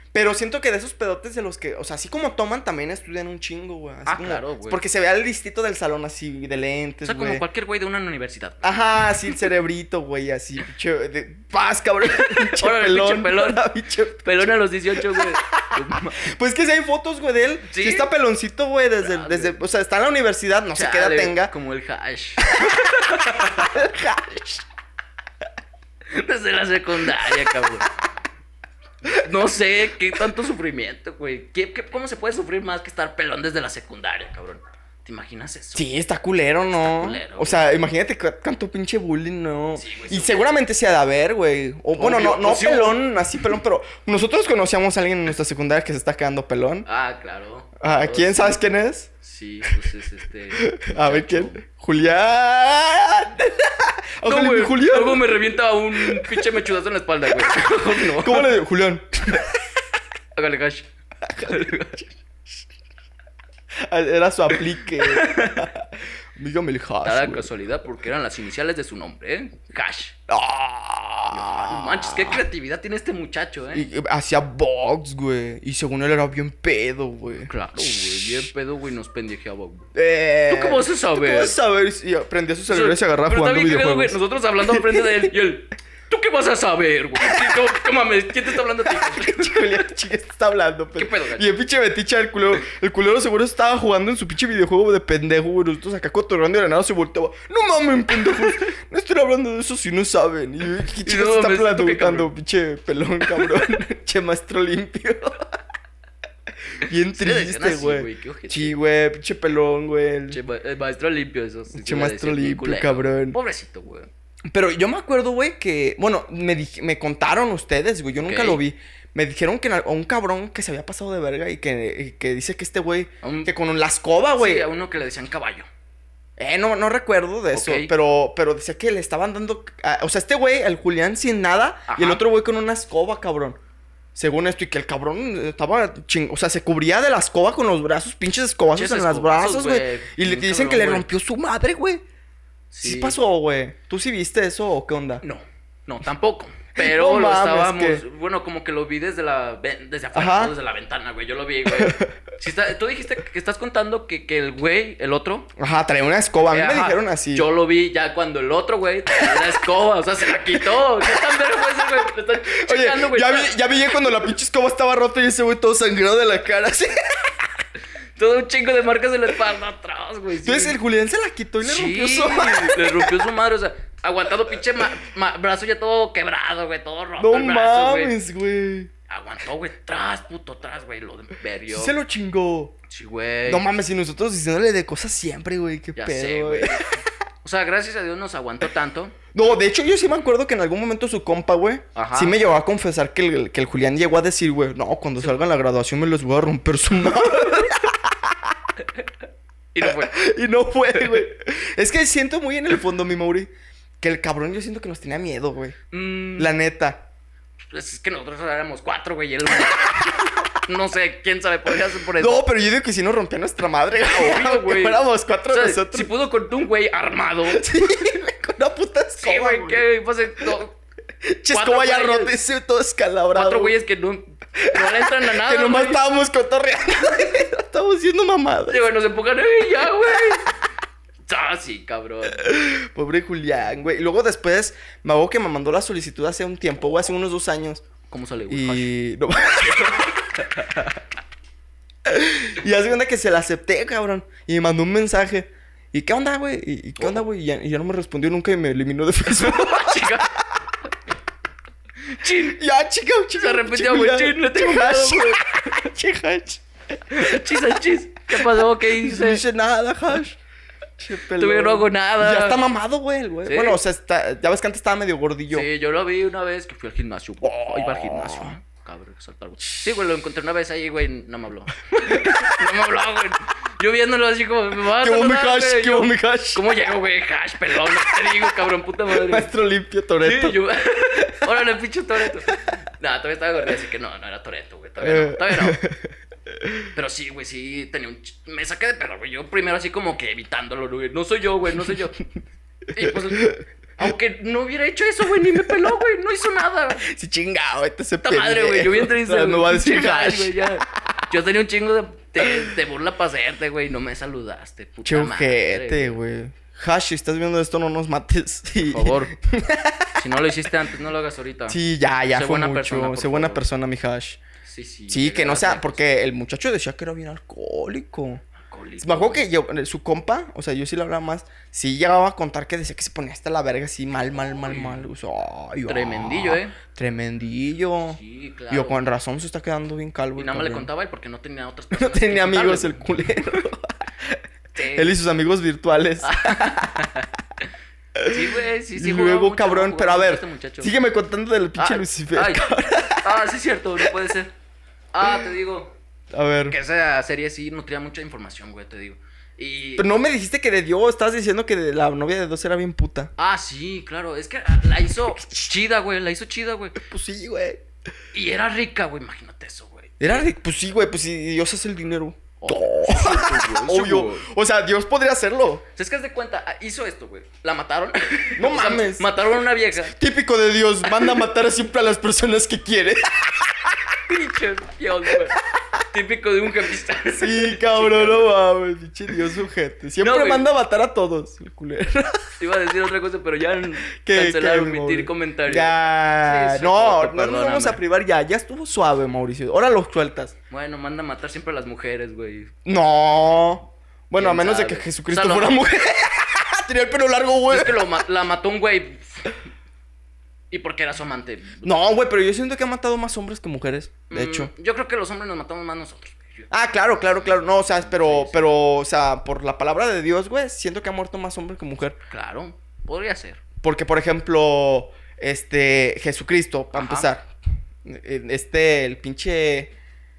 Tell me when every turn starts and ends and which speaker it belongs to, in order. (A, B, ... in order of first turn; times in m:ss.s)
0:00.1-0:07.4 A
0:04.1-0:04.8 B
0:07.0-0:09.5 B
0:08.6-0:21.5 A
0:12.0-0:13.6 B
0:14.2-0:16.3 B
0:17.7-0:18.1 B
0:19.0-0:19.6 B
0:20.7-0:23.8 B
0:22.4-0:24.6 A
0:26.1-0:27.9 B
0:29.0-0:35.9 B
0:35.8-0:46.9 A
0:36.7-0:37.8 B
0:39.8-0:40.5 B
0:42.0-0:43.0 B
0:46.9-0:48.6 B
0:47.8-0:49.1 A
0:49.2-0:51.6 B
0:50.5-0:55.4 A
0:54.2-0:58.6 B
0:56.0-0:56.5 A
0:57.4-0:59.6 A
1:00.4-1:00.9 B
1:01.3-1:02.1 A
1:01.4-1:02.1 B
1:03.8-1:07.5 A
1:04.5-1:05.7 B
1:07.0-1:10.2 B
1:10.3-1:12.4 A
1:11.3-1:13.9 B
1:13.7-1:18.5 A
1:17.3-1:19.9 B
1:19.9-1:25.3 A
1:20.5-1:21.6 B
1:22.7-1:29.9 B
1:27.2-1:27.5 A
1:28.8-1:45.5 A
1:31.0-1:31.5 B
1:38.2-1:38.6 B
1:41.0-1:42.3 B
1:43.3-1:43.7 B
1:46.7-1:50.4 A
1:47.1-1:48.8 B
1:50.3-1:54.1 B
1:51.7-1:53.4 A
1:54.5-2:04.7 A
1:58.2-1:58.6 B
2:03.2-2:03.5 B
2:04.4-2:05.7 B
2:06.4-2:13.6 A
2:07.5-2:07.9 B
2:11.9-2:12.2 B
2:14.2-2:22.0 A
2:18.7-2:21.1 B
2:22.7-2:23.2 B
2:22.8-2:25.2 A
2:25.2-2:35.5 B
2:26.8-2:28.0 A
2:30.2-2:30.6 A
2:31.7-2:32.1 A
2:35.6-2:37.5 A
2:36.5-2:44.1 B
2:41.1-2:41.4 A
2:42.4-2:47.0 A
2:48.2-2:50.8 B
2:50.4-2:53.2 A
2:51.6-2:58.2 B
2:57.2-2:58.9 A
2:59.1-3:02.0 B
3:01.7-3:02.8 A
3:02.9-3:03.6 B
3:03.4-3:06.9 A
3:06.0-3:06.8 B
3:07.4-3:09.2 B
3:09.3-3:18.5 A
3:12.0-3:12.6 B
3:19.7-3:20.2 B
3:19.8-3:25.8 A
3:21.0-3:21.2 B
3:25.9-3:26.5 B
3:26.4-3:27.1 A
3:27.7-3:32.4 B
3:32.2-3:36.1 A
3:34.0-3:37.7 B
3:37.5-3:39.8 A
3:39.2-3:40.8 B
3:41.2-3:43.8 A
3:41.5-3:42.3 B
3:43.3-3:46.0 B
3:44.6-3:48.8 A
3:48.7-3:50.5 B
3:51.2-3:52.4 B
3:52.4-3:57.8 A
3:58.1-3:58.9 B
3:58.5-4:00.1 A
3:59.6-4:01.0 B
4:02.1-4:10.4 A
4:07.0-4:07.2 B
4:09.4-4:10.3 B
4:12.0-4:12.6 B
4:12.5-4:17.6 A
4:13.4-4:15.8 B
4:17.1-4:19.4 B
4:18.3-4:20.4 A
4:21.0-4:25.7 A
4:21.4-4:22.6 B
4:23.4-4:23.8 B
4:25.5-4:39.5 B
4:27.4-4:28.6 A
4:32.1-4:32.5 A
4:34.9-4:36.7 A
4:38.0-4:38.4 A
4:39.1-4:40.6 A
4:40.2-4:45.8 B
4:45.0-4:46.1 A
4:46.6-4:46.9 A
4:46.9-4:52.2 B
4:52.9-4:57.0 B
4:53.0-4:53.6 A
4:57.0-5:00.7 A
4:58.2-5:06.2 B
5:05.0-5:10.2 A
5:08.9-5:09.3 B
5:10.2-5:11.8 B
5:11.7-5:14.4 A
5:12.3-5:13.6 B
5:14.6-5:16.1 B
5:15.1-5:18.4 A
5:18.6-5:19.4 B
5:19.0-5:28.2 A
5:24.6-5:25.1 B
5:25.9-5:26.8 B
5:28.0-5:29.0 B
5:28.7-5:30.9 A
5:30.4-5:33.6 B
5:31.9-5:37.1 A
5:34.8-5:35.1 B
5:36.2-5:37.7 B
5:38.2-5:43.4 A
5:38.3-5:40.9 B
5:41.8-5:44.5 B
5:45.1-5:45.9 B
5:46.3-5:46.8 A
5:46.7-5:50.1 B
5:50.0-5:53.3 A
5:53.4-5:57.0 B
5:57.0-5:57.8 A
5:58.3-6:00.5 B
6:00.2-6:05.8 A
6:02.6-6:04.5 B
6:06.0-6:10.2 B
6:08.6-6:09.3 A
6:10.0-6:14.0 A
6:11.1-6:11.4 B
6:14.3-6:15.6 B
6:16.1-6:18.5 B
6:17.4-6:22.5 A
6:20.2-6:20.7 B
6:22.6-6:28.0 B
6:24.2-6:30.6 A
6:30.7-6:32.7 B
6:32.8-6:38.2 A
6:34.4-6:35.8 B
6:37.7-6:39.6 B
6:40.7-6:42.0 B
6:41.8-6:44.7 A
6:44.3-6:46.7 B
6:46.7-6:52.2 A
6:47.2-6:48.8 B
6:52.3-6:53.6 B
6:53.8-6:57.5 A
6:56.9-6:57.3 B
6:58.0-6:59.9 A